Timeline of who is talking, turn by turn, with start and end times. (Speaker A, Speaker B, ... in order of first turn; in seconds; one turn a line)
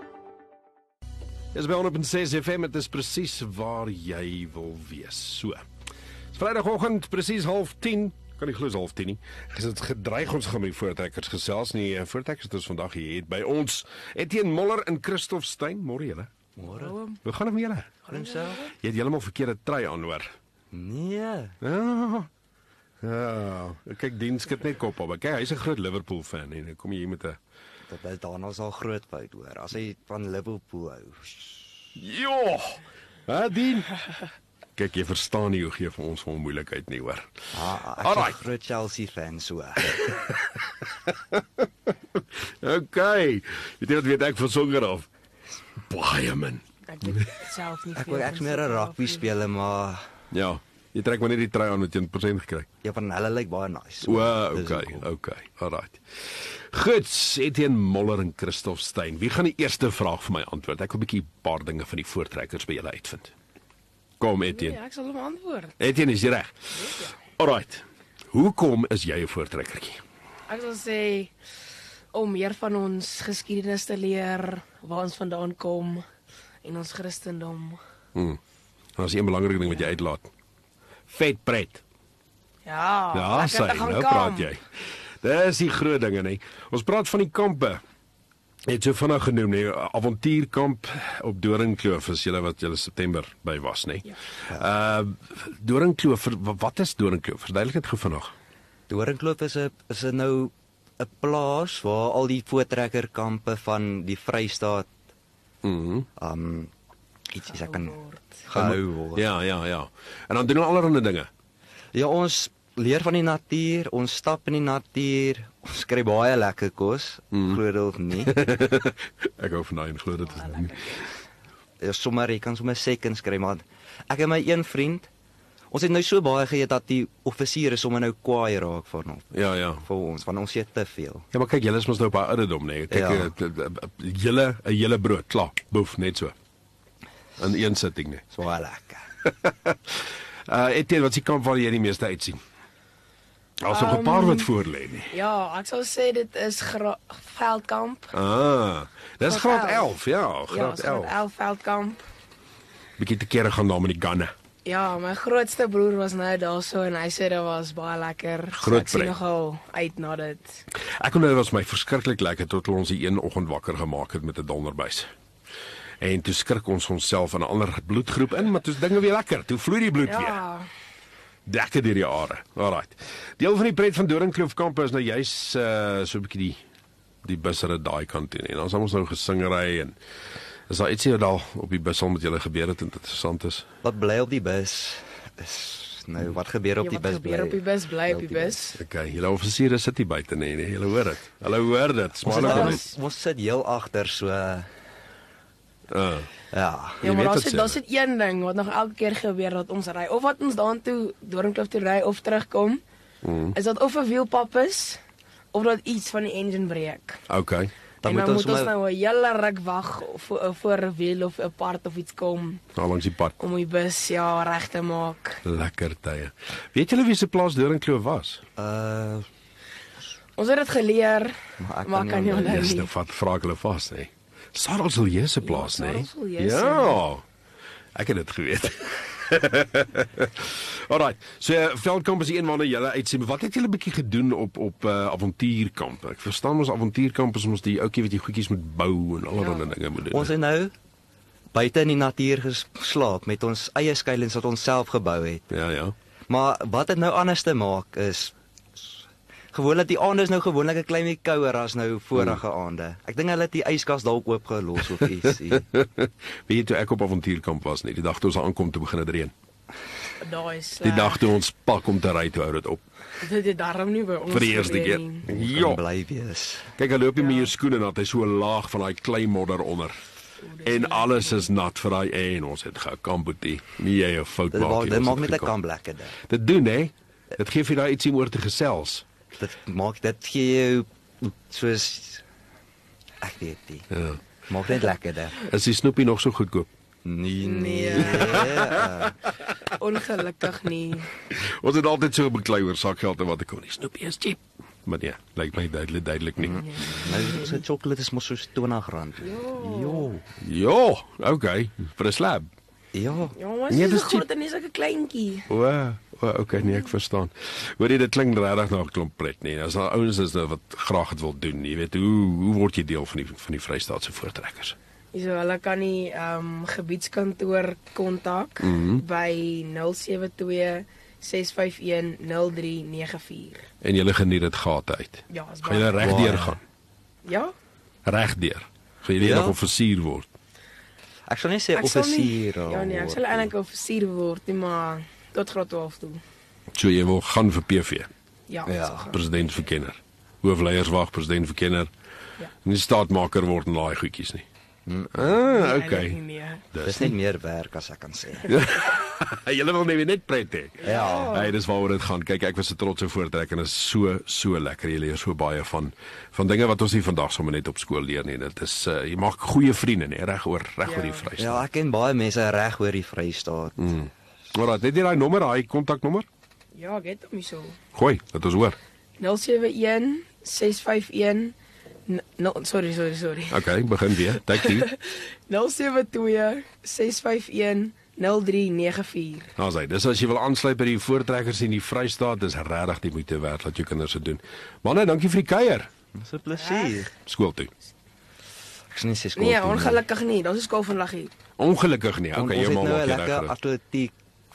Speaker A: 1.5-5.6
Speaker A: 6.3-16.3
Speaker B: 16.6-17.0
Speaker C: 16.7-17.2
Speaker A: 17.2-18.0
Speaker C: 18.1-18.6
Speaker B: 18.1-18.7
Speaker A: 18.7-20.3
Speaker B: 20.7-21.6
Speaker A: 21.6-22.3
Speaker A: 23.0-27.4
Speaker B: 27.9-31.7
Speaker A: 32.0-34.0
Speaker A: 34.8-37.5
Speaker B: 37.5-40.0
Speaker A: 38.0-38.4
Speaker A: 40.0-45.1
Speaker A: 45.8-47.3
Speaker C: 46.9-49.3
Speaker B: 47.9-50.0
Speaker A: 50.3-52.7
Speaker B: 52.8-55.1
Speaker A: 54.0-56.0
Speaker A: 56.7-63.3
Speaker A: 64.2-64.8
Speaker C: 64.5-65.7
Speaker A: 65.8-66.5
Speaker C: 66.7-67.1
Speaker A: 67.2-70.0
Speaker C: 70.5-71.3
Speaker C: 72.1-76.0
Speaker C: 76.6-77.8
Speaker A: 79.0-80.3
Speaker A: 81.1-81.8
Speaker C: 82.6-84.5
Speaker A: 83.1-84.6
Speaker A: 85.2-87.8
Speaker A: 88.7-98.3
Speaker B: 98.9-104.9
Speaker A: 105.6-106.1
Speaker B: 106.2-106.7
Speaker B: 107.3-109.3
Speaker C: 107.5-108.5
Speaker A: 108.5-111.3
Speaker B: 111.9-118.4
Speaker A: 118.2-120.8
Speaker C: 120.4-121.0
Speaker B: 121.8-125.1
Speaker B: 125.7-131.2
Speaker A: 129.3-129.8
Speaker A: 131.3-136.3
Speaker B: 132.9-133.3
Speaker A: 137.4-138.2
Speaker B: 138.3-139.0
Speaker A: 139.2-142.4
Speaker A: 143.6-145.2
Speaker C: 143.7-144.5
Speaker C: 145.1-148.1
Speaker A: 148.1-151.2
Speaker C: 149.2-149.9
Speaker C: 150.5-152.0
Speaker A: 153.0-154.3
Speaker C: 154.6-160.6
Speaker A: 158.5-159.2
Speaker A: 160.8-165.1
Speaker A: 166.0-170.4
Speaker C: 170.0-170.7
Speaker A: 171.5-176.6
Speaker A: 177.2-179.9
Speaker A: 180.7-183.7
Speaker B: 183.8-188.6
Speaker C: 186.8-188.8
Speaker A: 188.8-192.8
Speaker B: 192.2-194.7
Speaker C: 192.3-192.9
Speaker A: 195.9-196.3
Speaker B: 196.5-197.0
Speaker A: 197.0-197.8
Speaker C: 197.0-202.8
Speaker A: 203.2-203.6
Speaker C: 203.5-205.0
Speaker C: 205.5-207.2
Speaker A: 207.3-207.7
Speaker B: 208.0-208.7
Speaker C: 208.0-212.6
Speaker A: 212.7-213.3
Speaker C: 213.4-215.4
Speaker A: 215.4-218.4
Speaker B: 218.6-219.3
Speaker C: 220.4-222.9
Speaker B: 221.6-222.7
Speaker A: 222.4-227.2
Speaker C: 225.4-227.0
Speaker A: 227.9-240.3
Speaker C: 239.4-239.7
Speaker B: 240.1-240.7
Speaker B: 241.5-245.5
Speaker A: 245.5-245.9
Speaker B: 246.3-248.8
Speaker B: 249.5-255.7
Speaker A: 255.6-259.3
Speaker C: 260.2-261.2
Speaker A: 260.8-262.8
Speaker C: 263.2-265.2
Speaker A: 264.3-265.8
Speaker B: 265.2-266.7
Speaker A: 266.8-270.0
Speaker C: 267.2-267.5
Speaker C: 270.4-271.5
Speaker A: 270.6-275.5
Speaker B: 274.5-276.2
Speaker A: 276.2-279.0
Speaker B: 279.4-282.2
Speaker B: 283.2-283.9
Speaker A: 283.9-284.2
Speaker B: 284.5-285.4
Speaker A: 285.4-286.7
Speaker B: 287.0-289.2
Speaker C: 287.4-288.4
Speaker A: 288.0-289.0
Speaker C: 289.7-291.1
Speaker A: 291.2-296.7
Speaker B: 296.4-300.2
Speaker C: 296.7-297.6
Speaker C: 299.2-300.1
Speaker A: 300.3-302.5
Speaker B: 302.9-303.3
Speaker C: 303.3-305.4
Speaker A: 303.7-304.2
Speaker A: 305.5-314.8
Speaker C: 315.1-323.7
Speaker A: 318.6-319.0
Speaker A: 323.8-326.6
Speaker C: 325.3-326.2
Speaker B: 326.0-326.6
Speaker C: 327.2-327.5
Speaker A: 328.1-330.3
Speaker B: 329.2-329.6
Speaker B: 331.3-333.5
Speaker C: 331.7-336.2
Speaker A: 336.7-338.1
Speaker C: 338.5-339.2
Speaker B: 338.6-339.1
Speaker A: 339.1-341.9
Speaker A: 342.6-344.4
Speaker B: 344.9-345.3
Speaker A: 345.1-346.2
Speaker C: 345.4-346.6
Speaker A: 346.7-347.1
Speaker B: 346.8-348.5
Speaker A: 348.5-361.7
Speaker C: 350.8-351.5
Speaker B: 350.8-351.4
Speaker C: 360.8-361.3
Speaker B: 361.4-363.8
Speaker A: 363.8-366.3
Speaker C: 366.7-367.8
Speaker A: 367.9-368.8
Speaker C: 369.2-371.5
Speaker C: 372.1-373.6
Speaker A: 373.5-374.9
Speaker C: 374.4-379.5
Speaker A: 379.6-385.9
Speaker B: 386.1-387.1
Speaker C: 386.6-387.1
Speaker A: 387.2-387.7
Speaker B: 388.9-390.0
Speaker C: 389.4-391.3
Speaker A: 391.6-393.5
Speaker B: 392.3-394.1